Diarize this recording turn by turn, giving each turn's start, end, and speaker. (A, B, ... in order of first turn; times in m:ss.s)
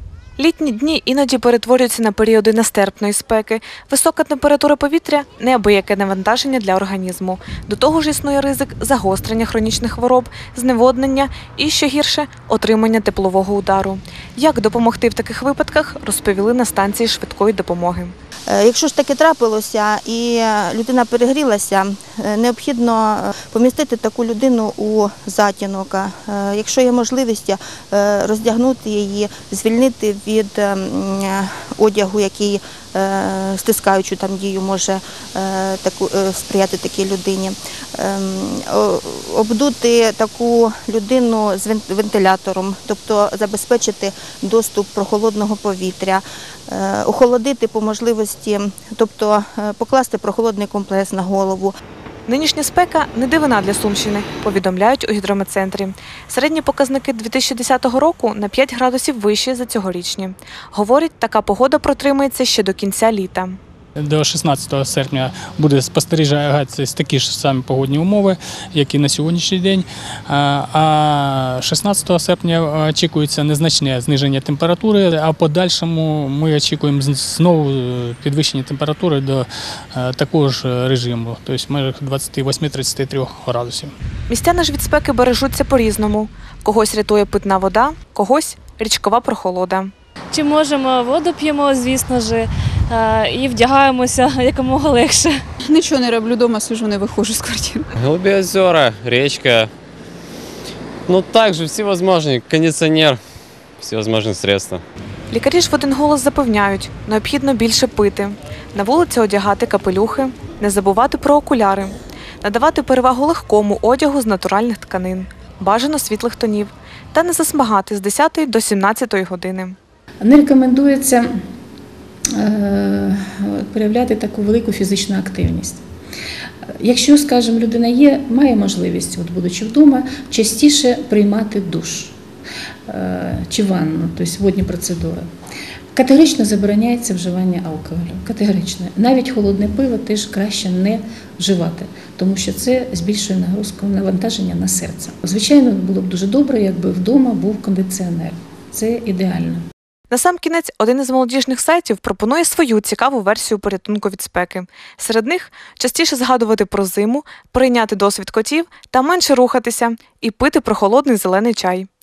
0:00.4-0:18.1 A
0:18.5-0:51.7 B
0:52.3-1:03.6 A
1:04.0-1:23.9 C
1:24.3-1:29.9 A
1:30.3-1:35.3 D
1:35.6-1:37.8 E
1:38.0-1:39.7 F
1:41.1-1:43.2 F
1:43.8-1:44.8 F
1:45.3-1:59.8 A
2:00.2-2:01.3 G
2:02.3-2:05.8 G
2:06.8-2:12.2 G
2:12.9-2:15.3 G
2:16.0-2:29.6 G
2:30.1-2:41.9 A